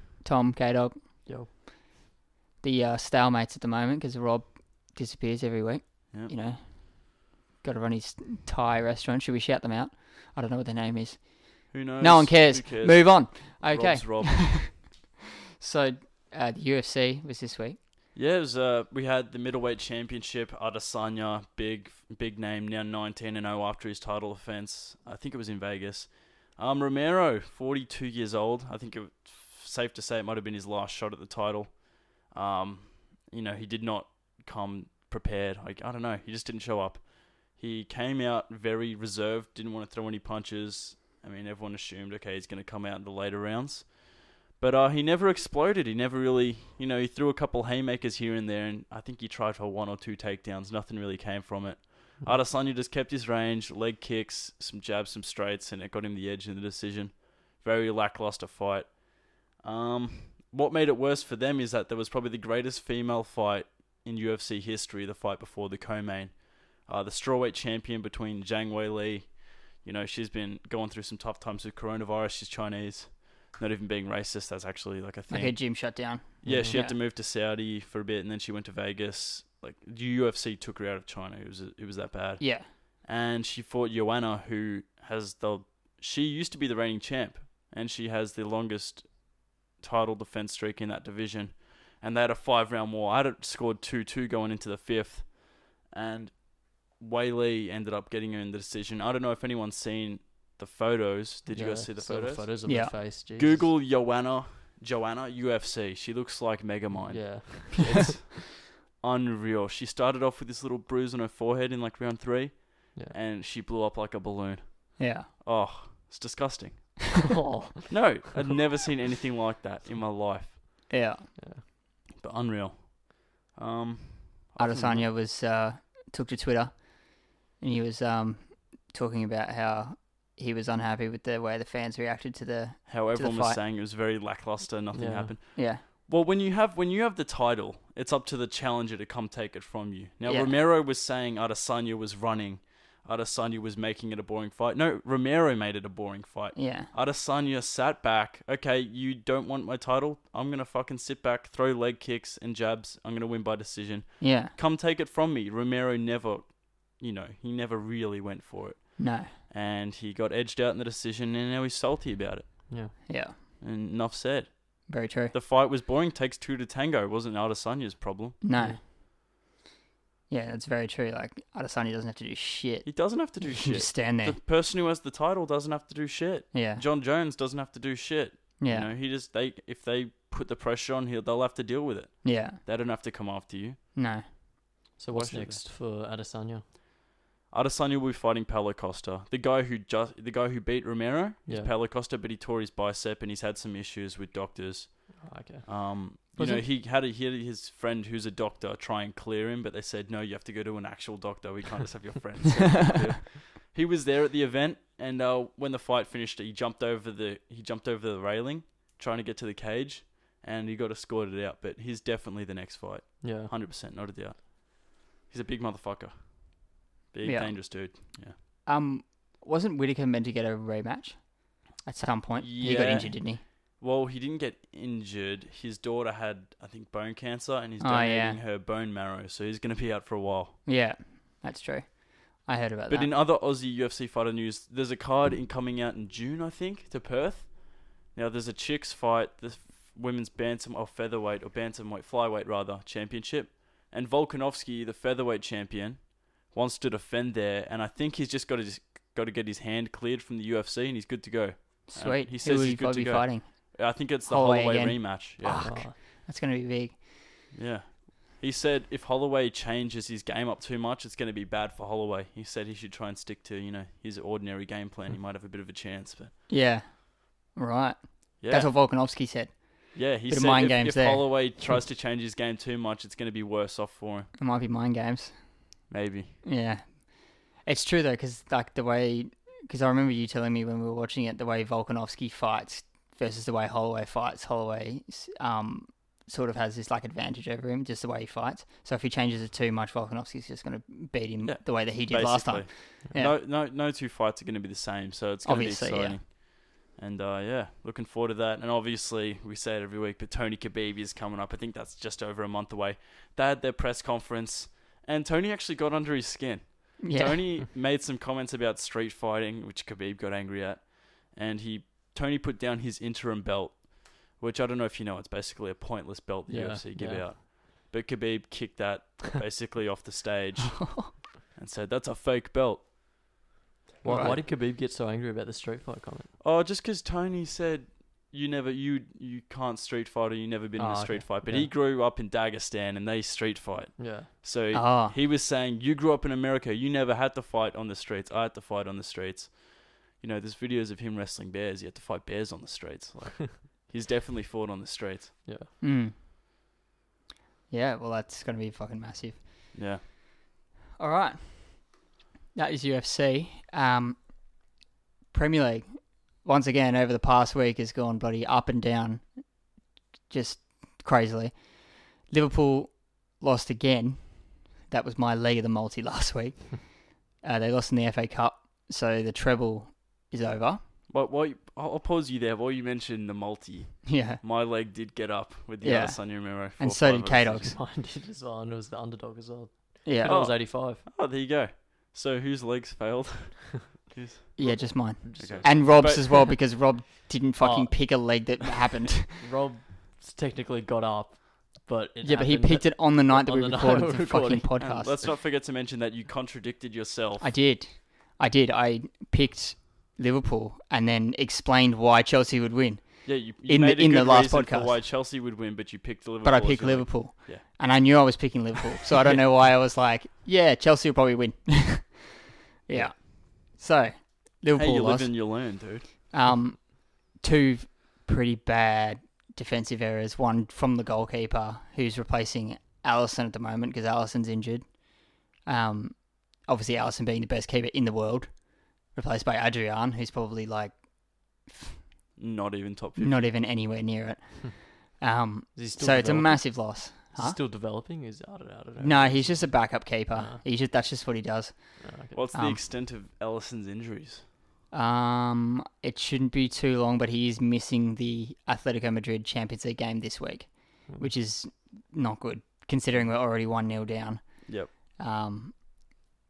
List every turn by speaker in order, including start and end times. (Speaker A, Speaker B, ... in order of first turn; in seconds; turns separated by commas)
Speaker A: 0.2-1.0, Speaker A: 2.6-15.1, Speaker B: 11.7-14.8, Speaker A: 15.6-17.8, Speaker B: 18.1-102.5, Speaker A: 75.3-77.0, Speaker C: 76.5-76.8, Speaker A: 82.4-82.7, Speaker C: 101.5-103.7, Speaker A: 102.7-103.0, Speaker B: 103.2-117.2, Speaker C: 107.1-108.1, Speaker A: 115.0-115.3, Speaker C: 117.4-118.2, Speaker B: 117.9-120.9, Speaker A: 120.9-121.3, Speaker C: 121.4-121.7, Speaker B: 122.2-125.1, Speaker A: 124.6-133.6, Speaker B: 132.9-168.4, Speaker C: 134.9-135.3, Speaker A: 135.6-135.8, Speaker A: 140.3-140.5, Speaker A: 146.6-146.9, Speaker A: 154.2-154.6, Speaker A: 159.0-159.3, Speaker C: 162.7-162.9, Speaker A: 163.1-163.3, Speaker A: 164.9-165.3, Speaker A: 168.4-168.8, Speaker A: 170.3-174.4, Speaker B: 172.8-183.8, Speaker A: 176.5-176.8, Speaker A: 178.6-178.9, Speaker A: 182.2-182.6, Speaker A: 184.0-184.3, Speaker C: 185.0-186.7, Speaker B: 185.1-185.6, Speaker B: 187.5-218.4, Speaker C: 191.5-191.7, Speaker C: 195.2-195.7, Speaker A: 196.4-196.7, Speaker C: 213.2-213.5, Speaker A: 217.2-217.7, Speaker A: 218.7-223.4, Speaker B: 222.4-230.6, Speaker A: 227.8-228.4, Speaker A: 230.7-233.1, Speaker B: 232.9-255.9, Speaker A: 251.9-257.1, Speaker C: 255.4-256.0, Speaker B: 257.5-266.3, Speaker A: 266.5-271.3, Speaker B: 268.4-268.7, Speaker B: 269.9-274.3, Speaker A: 274.4-275.4, Speaker B: 275.9-276.3, Speaker A: 276.4-293.4, Speaker B: 291.4-322.9, Speaker A: 295.4-296.2, Speaker A: 307.0-307.5, Speaker C: 316.5-317.3, Speaker A: 320.8-321.1, Speaker C: 324.0-326.3, Speaker A: 324.1-324.4, Speaker B: 324.1-324.4, Speaker B: 326.4-345.5, Speaker C: 330.8-331.7, Speaker C: 334.0-334.3, Speaker A: 334.7-335.2, Speaker C: 343.2-343.5, Speaker C: 345.4-345.7, Speaker A: 345.8-346.1, Speaker A: 347.7-349.7, Speaker B: 349.7-350.0, Speaker A: 351.0-354.5, Speaker A: 355.3-359.3, Speaker A: 360.3-370.8, Speaker B: 371.1-377.8, Speaker A: 374.1-374.4, Speaker A: 375.8-377.8, Speaker C: 377.6-381.0, Speaker A: 380.1-380.4, Speaker B: 380.2-386.6, Speaker A: 384.6-389.4, Speaker C: 384.6-386.2, Speaker C: 387.6-388.0, Speaker C: 389.4-394.9, Speaker A: 392.2-395.2, Speaker B: 394.8-397.6, Speaker A: 397.4-405.0, Speaker B: 403.2-407.6, Speaker A: 406.4-415.7, Speaker B: 414.8-416.1, Speaker A: 416.3-425.0, Speaker A: 425.6-432.0, Speaker B: 432.4-433.5, Speaker A: 433.2-437.6, Speaker C: 435.8-440.6, Speaker A: 439.0-442.8, Speaker C: 442.0-442.4, Speaker B: 442.3-444.4, Speaker A: 444.9-455.8